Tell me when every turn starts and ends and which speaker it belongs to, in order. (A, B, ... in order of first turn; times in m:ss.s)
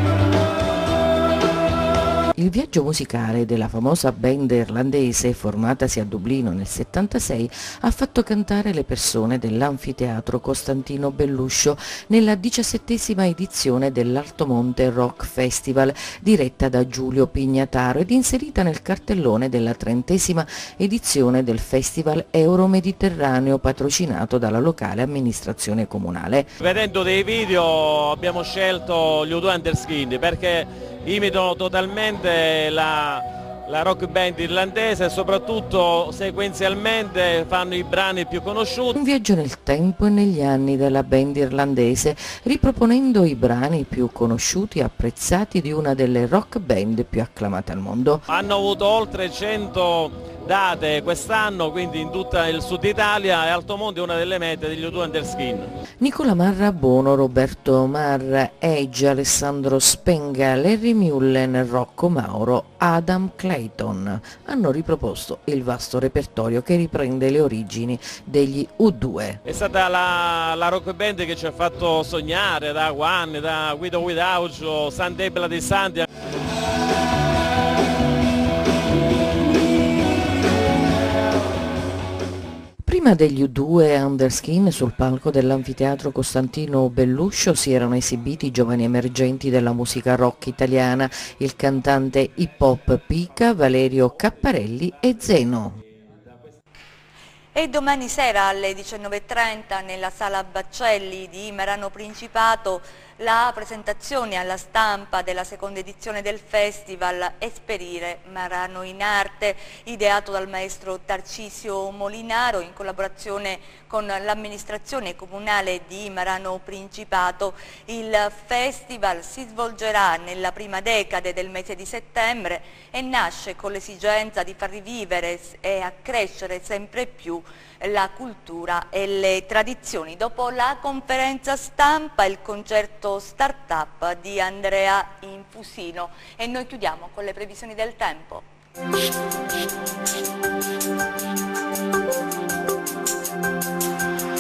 0:02.4-0:26.5 A
0:26.6-0:38.9 B
0:38.9-0:48.2 A
0:48.3-0:55.7 B
0:56.0-1:09.4 A
1:09.4-1:16.1 B
1:22.8-1:35.8 A
1:37.5-2:18.4 C